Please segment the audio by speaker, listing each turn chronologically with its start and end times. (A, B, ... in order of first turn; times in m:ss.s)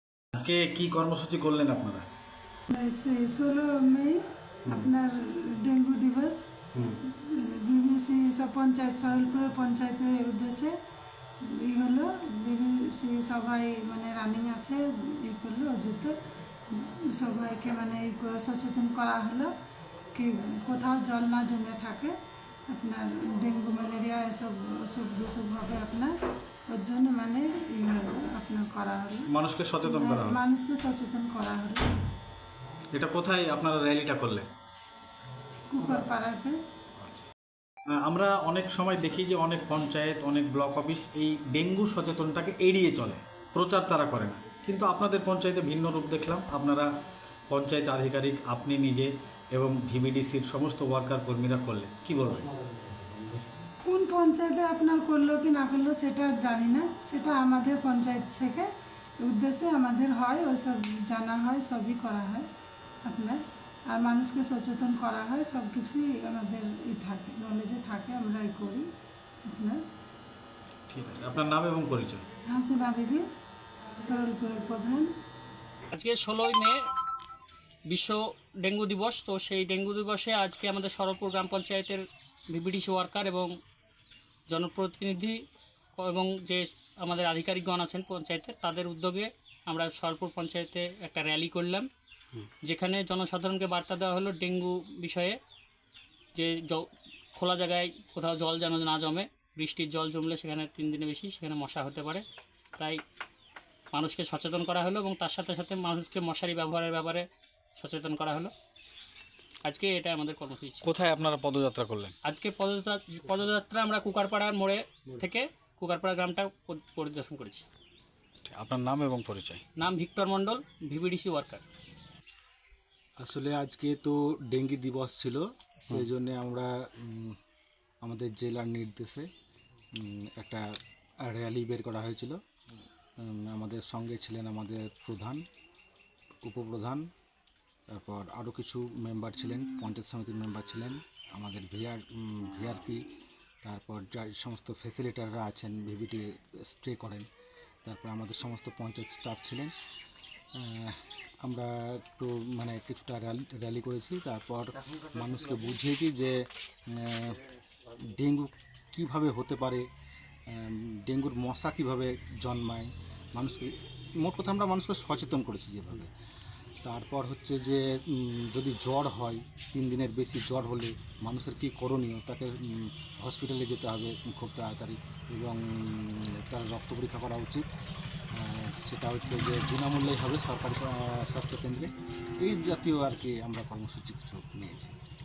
0:00.3-0:02.0 A
0:02.7-0:06.5 B
0:07.0-0:10.7 B
0:11.4-0:16.1 B
0:16.7-0:19.5 B
0:20.1-0:22.1 B
0:22.7-0:26.1 B
0:26.7-0:29.3 B
0:29.3-0:30.4 A
0:29.8-0:31.9 B
0:32.9-0:34.5 A
0:35.7-0:36.6 B
0:37.9-0:46.9 A
0:47.5-0:52.5 A
0:53.8-0:58.7 B
0:59.2-1:02.4 B
1:03.0-1:08.9 B
1:09.4-1:09.8 B
1:10.9-1:12.2 A
1:12.5-1:13.2 B
1:14.0-1:15.1 B
1:15.9-1:16.8 C
1:17.9-1:23.5 C
1:24.5-1:25.4 C
1:26.0-1:31.9 C
1:32.6-1:35.4 C
1:36.3-1:42.2 C
1:43.9-1:47.2 C
1:47.8-1:48.5 C
1:49.6-1:50.9 C
1:50.8-1:52.1 A
1:52.2-1:57.6 C
1:58.4-1:59.6 A
1:59.8-2:01.6 C
2:03.2-2:07.4 D
2:08.0-2:09.3 D
2:09.9-2:10.6 D
2:11.2-2:12.4 D
2:13.2-2:15.4 D
2:16.4-2:17.1 D
2:17.9-2:23.0 D
2:23.6-2:27.3 D
2:27.8-2:29.7 D
2:30.6-2:36.4 D
2:36.9-2:39.8 D
2:40.5-2:46.1 D
2:46.8-2:57.6 D
2:58.3-3:04.9 D